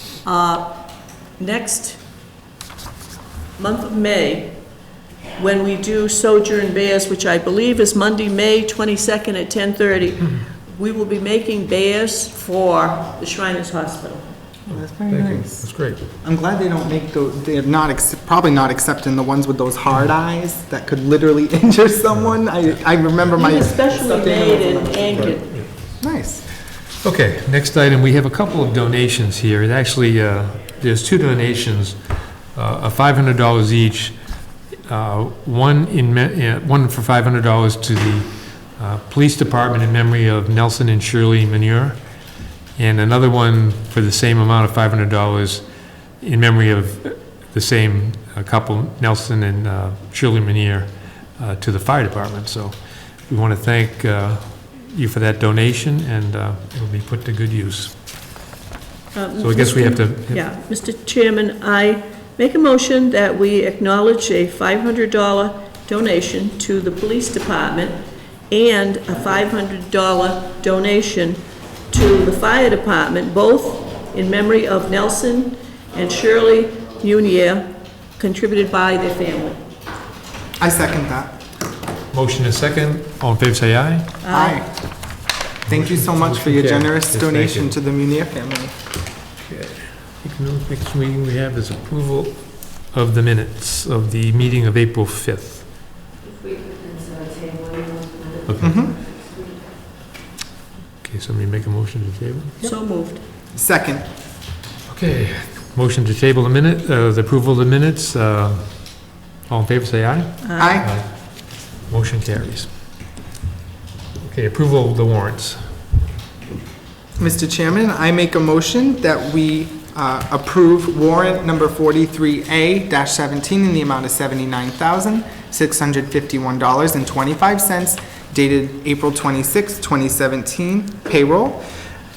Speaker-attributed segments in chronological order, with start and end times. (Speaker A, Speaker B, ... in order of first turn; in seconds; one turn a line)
Speaker A: 0.2-0.8
Speaker A: 1.4-2.0
Speaker A: 3.6-4.6
Speaker A: 5.3-14.3
Speaker B: 14.7-26.5
Speaker C: 14.7-16.0
Speaker C: 22.1-22.6
Speaker A: 23.3-25.5
Speaker C: 25.2-26.0
Speaker C: 27.0-42.1
Speaker C: 42.7-58.0
Speaker A: 59.1-79.6
Speaker C: 59.4-60.4
Speaker B: 80.6-81.4
Speaker C: 82.1-84.2
Speaker A: 84.2-84.7
Speaker B: 84.3-84.7
Speaker C: 85.7-87.7
Speaker B: 85.7-88.7
Speaker C: 89.4-95.7
Speaker C: 98.5-98.7
Speaker B: 98.6-99.0
Speaker C: 101.0-102.6
Speaker A: 102.6-103.2
Speaker B: 103.5-104.0
Speaker C: 104.9-112.9
Speaker A: 110.4-110.8
Speaker B: 110.6-111.0
Speaker C: 114.2-115.8
Speaker B: 117.2-131.6